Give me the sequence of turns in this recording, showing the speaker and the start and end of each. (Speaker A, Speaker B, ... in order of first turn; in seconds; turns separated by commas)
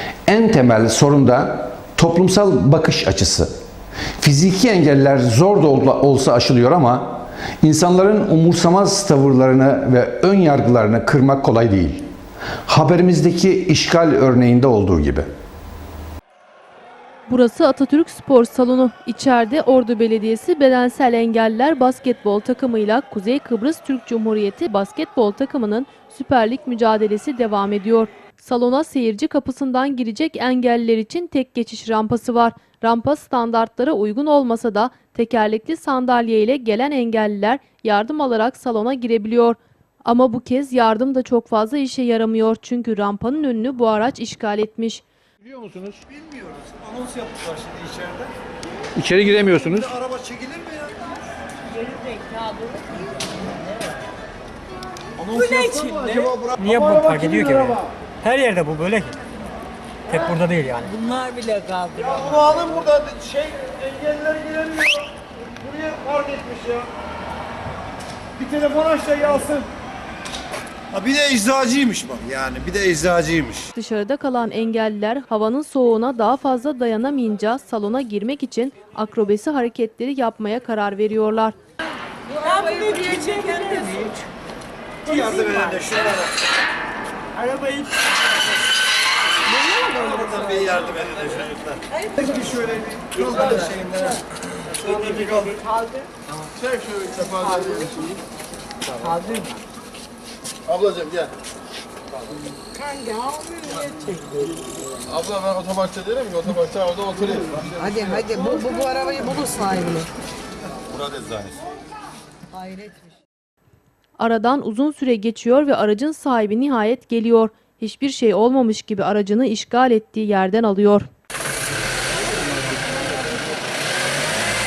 Speaker A: 0.3-3.5, Speaker A: 4.2-12.1, Speaker A: 12.7-15.3, Speaker B: 17.3-45.0, Speaker A: 45.5-46.0, Speaker C: 46.1-48.3, Speaker A: 49.0-49.9, Speaker C: 49.8-51.0, Speaker C: 55.2-56.9, Speaker D: 55.3-59.2, Speaker D: 60.1-61.0, Speaker E: 61.0-62.1, Speaker C: 61.9-65.1, Speaker C: 65.6-66.9, Speaker C: 68.4-69.7, Speaker C: 70.9-73.7, Speaker B: 73.7-81.6, Speaker E: 82.5-84.2, Speaker C: 85.0-86.3, Speaker D: 87.5-87.7, Speaker C: 89.9-95.6, Speaker C: 96.7-98.2, Speaker C: 100.7-101.3, Speaker E: 102.8-104.5, Speaker C: 105.1-108.4, Speaker F: 107.8-110.1, Speaker C: 111.0-111.5, Speaker F: 112.6-112.9, Speaker B: 114.2-121.1